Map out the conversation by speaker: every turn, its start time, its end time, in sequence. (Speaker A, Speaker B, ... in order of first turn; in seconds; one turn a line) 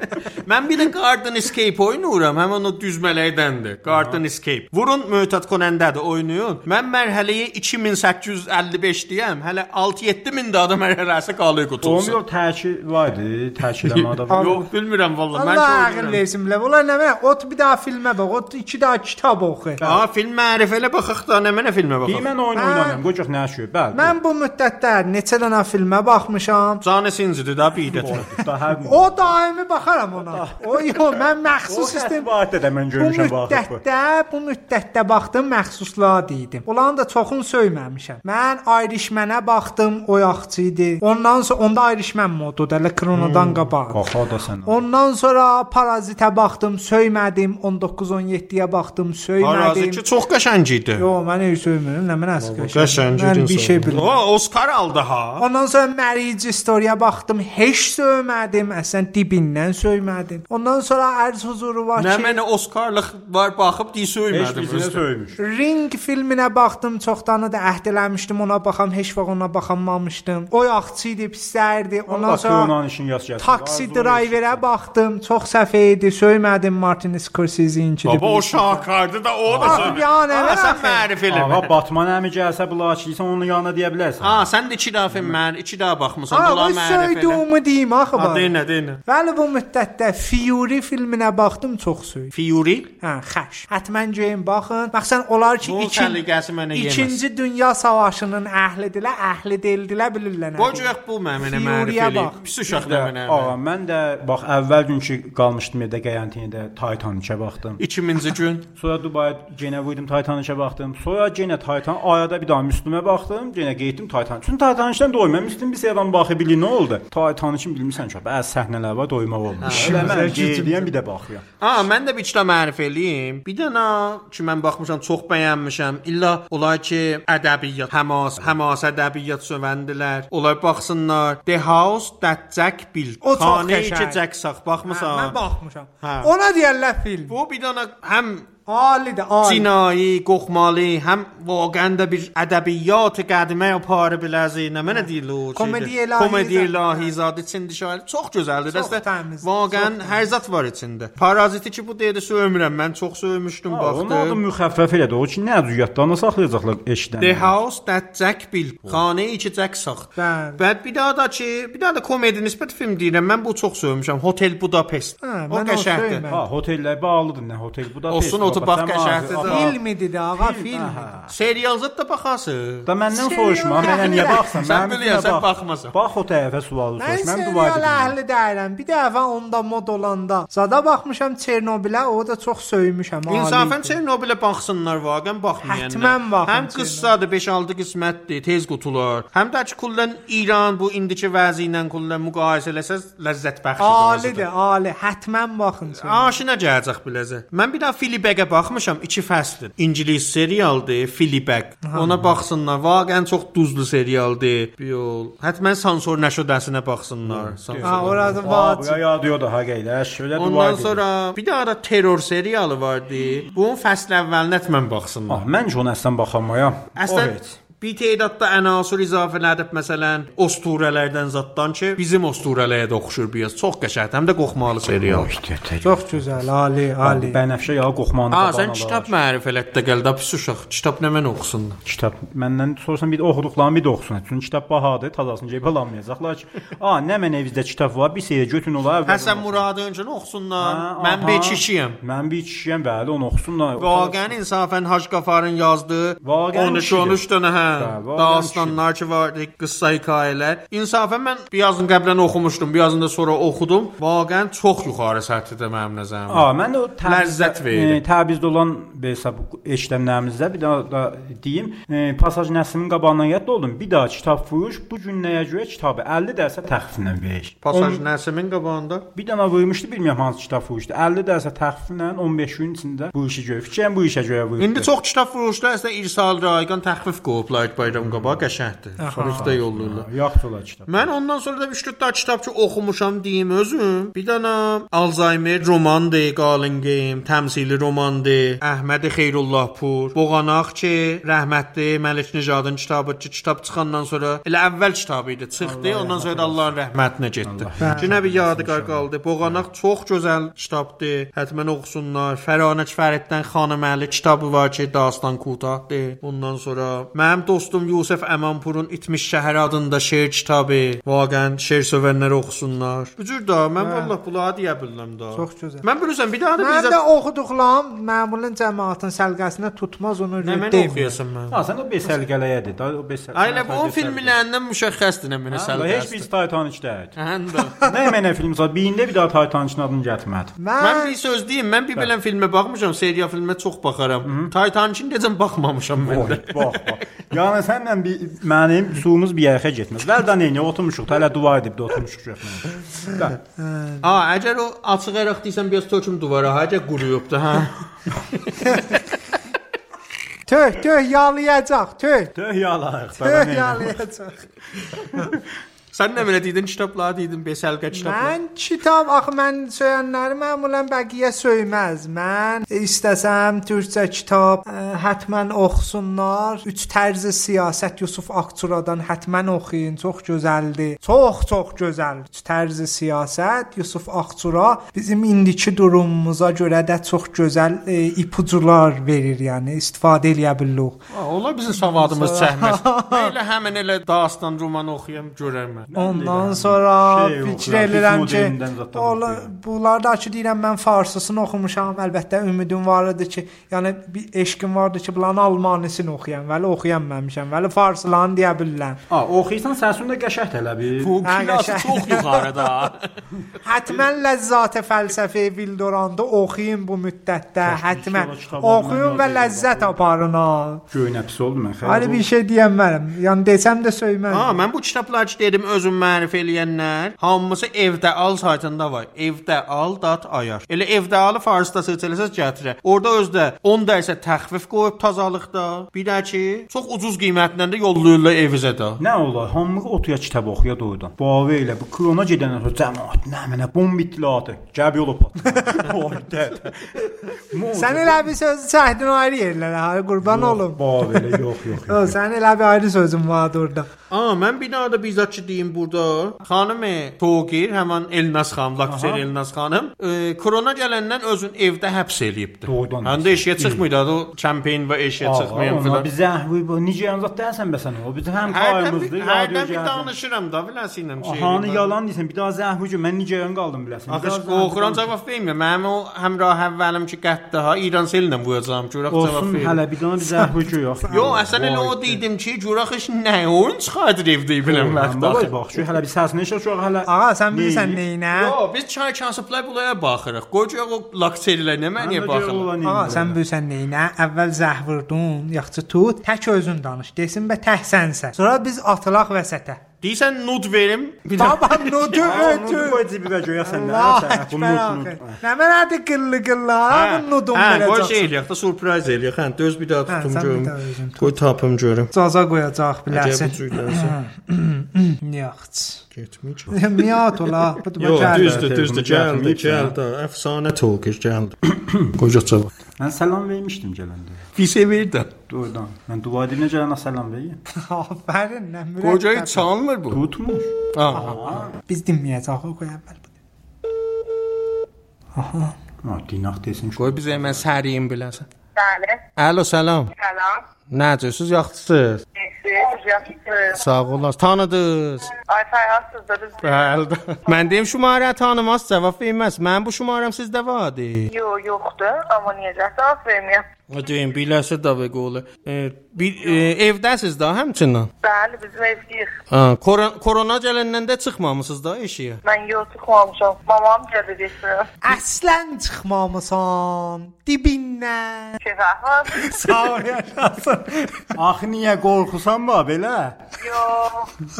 Speaker A: 0.5-12.2
Speaker B: 3.9-4.2
Speaker B: 11.8-14.7
Speaker A: 13.8-16.2
Speaker C: 14.3-14.6
Speaker C: 15.3-19.8
Speaker B: 19.8-20.1
Speaker A: 19.8-22.3
Speaker B: 22.1-24.1
Speaker C: 22.6-23.0
Speaker C: 23.9-26.8
Speaker A: 26.8-28.2
Speaker B: 27.9-29.3
Speaker C: 28.9-32.3
Speaker B: 30.2-33.8
Speaker C: 33.0-44.0
Speaker A: 43.1-43.6
Speaker B: 43.9-44.8
Speaker C: 44.7-50.0
Speaker A: 49.4-51.0
Speaker C: 51.0-54.1
Speaker A: 52.4-55.4
Speaker C: 55.4-62.4
Speaker A: 62.0-65.0
Speaker B: 64.3-65.4
Speaker C: 65.4-72.7
Speaker B: 72.1-74.7
Speaker C: 73.4-78.9
Speaker A: 78.0-81.7
Speaker B: 79.5-80.0
Speaker C: 79.6-81.1
Speaker B: 81.3-84.5
Speaker A: 84.2-87.4
Speaker B: 85.1-85.4
Speaker C: 86.3-88.5
Speaker A: 88.1-89.0
Speaker C: 89.1-92.3
Speaker A: 92.3-92.9
Speaker C: 93.0-96.2
Speaker A: 95.6-97.2
Speaker C: 96.7-102.4
Speaker A: 100.6-103.5
Speaker B: 102.7-107.8
Speaker A: 107.8-108.7
Speaker B: 108.8-121.5
Speaker A: 119.6-120.2
Speaker C: 119.7-120.9
Speaker A: 121.6-135.4
Speaker C: 133.2-134.2
Speaker C: 134.9-137.3
Speaker A: 136.0-136.3
Speaker A: 137.3-138.5
Speaker C: 138.7-139.7
Speaker A: 139.4-154.4
Speaker C: 144.9-147.1
Speaker C: 148.7-150.3
Speaker B: 153.7-157.6
Speaker A: 157.2-166.2
Speaker C: 160.2-160.6
Speaker C: 165.2-166.4
Speaker B: 166.3-169.8
Speaker A: 168.1-169.7
Speaker C: 169.4-171.1
Speaker B: 170.3-171.3
Speaker A: 171.3-172.9
Speaker B: 172.9-178.1
Speaker C: 173.1-174.4
Speaker A: 173.8-175.9
Speaker C: 177.0-184.0
Speaker A: 183.3-194.5
Speaker C: 185.6-187.1
Speaker C: 193.8-196.3
Speaker A: 196.0-208.4
Speaker B: 207.2-211.0
Speaker C: 207.8-209.0
Speaker A: 210.4-215.4
Speaker B: 215.3-217.6
Speaker A: 217.0-225.3
Speaker B: 225.0-226.5
Speaker C: 225.8-227.4
Speaker B: 227.0-229.1
Speaker A: 228.3-231.8
Speaker B: 231.8-239.7
Speaker A: 239.1-242.0
Speaker B: 240.6-244.4
Speaker A: 243.8-256.5
Speaker B: 246.2-247.2
Speaker B: 247.8-248.8
Speaker B: 256.3-268.0
Speaker A: 257.0-258.0
Speaker A: 267.6-269.1
Speaker B: 269.1-274.9
Speaker A: 274.6-280.1
Speaker B: 277.9-278.5
Speaker C: 279.0-279.5
Speaker B: 279.1-281.1
Speaker A: 280.9-317.0
Speaker B: 295.6-296.7
Speaker B: 297.4-299.6
Speaker C: 297.8-298.1
Speaker C: 313.8-314.1
Speaker C: 315.3-315.9
Speaker C: 316.6-321.2
Speaker A: 320.4-321.6
Speaker B: 321.5-324.4
Speaker A: 323.3-326.3
Speaker B: 325.5-327.2
Speaker A: 327.2-327.8
Speaker B: 327.8-330.6
Speaker C: 330.6-331.1
Speaker A: 330.8-337.0
Speaker B: 334.2-334.5
Speaker B: 336.0-343.4
Speaker C: 343.6-344.0
Speaker A: 344.0-347.8
Speaker C: 350.5-352.3
Speaker B: 352.4-354.0
Speaker C: 353.2-354.4
Speaker A: 355.9-358.4
Speaker C: 357.9-381.0
Speaker A: 381.1-385.9
Speaker C: 381.8-383.3
Speaker B: 385.9-389.5
Speaker C: 386.0-399.0
Speaker B: 399.1-401.2
Speaker A: 401.0-403.1
Speaker C: 401.2-402.5
Speaker C: 403.6-410.8
Speaker B: 407.6-410.0
Speaker B: 410.9-412.2
Speaker C: 411.8-414.6
Speaker A: 414.3-429.0
Speaker B: 429.0-438.3
Speaker C: 437.8-441.4
Speaker B: 440.2-442.2
Speaker C: 441.9-443.9
Speaker A: 444.1-456.1
Speaker B: 448.9-449.3
Speaker B: 452.7-453.8
Speaker B: 455.2-460.1
Speaker A: 458.5-461.9
Speaker B: 461.2-465.1
Speaker A: 464.1-469.8
Speaker B: 469.1-472.2
Speaker A: 471.1-475.5
Speaker B: 474.6-478.0
Speaker C: 477.1-478.6
Speaker A: 478.3-482.7
Speaker B: 482.0-483.4
Speaker C: 482.8-489.8
Speaker A: 490.0-492.3
Speaker C: 491.4-493.0
Speaker B: 492.1-495.4
Speaker C: 493.6-498.3
Speaker A: 496.9-502.1
Speaker C: 500.1-501.3
Speaker C: 502.1-506.0
Speaker A: 503.1-504.1
Speaker A: 506.1-511.6
Speaker C: 506.7-508.6
Speaker B: 508.0-510.0
Speaker B: 511.7-512.1
Speaker A: 512.1-512.7
Speaker B: 513.0-514.4
Speaker A: 514.6-515.3
Speaker B: 515.5-517.6
Speaker C: 517.8-519.7
Speaker A: 519.0-520.2
Speaker B: 520.1-521.7
Speaker A: 520.9-521.4
Speaker C: 521.1-523.2
Speaker C: 525.4-525.8
Speaker B: 526.0-527.7
Speaker A: 527.0-528.5
Speaker D: 528.8-529.2
Speaker A: 529.4-530.1
Speaker D: 530.1-530.6
Speaker A: 530.9-532.2
Speaker D: 532.4-533.8
Speaker A: 533.8-535.3
Speaker D: 535.4-537.7
Speaker A: 536.6-541.3
Speaker D: 541.3-543.7
Speaker A: 543.9-548.1
Speaker D: 548.2-549.4
Speaker A: 549.5-552.4
Speaker D: 552.5-554.9
Speaker C: 555.0-558.6
Speaker D: 558.6-559.7
Speaker C: 559.4-561.2
Speaker B: 561.4-563.4
Speaker D: 563.6-564.3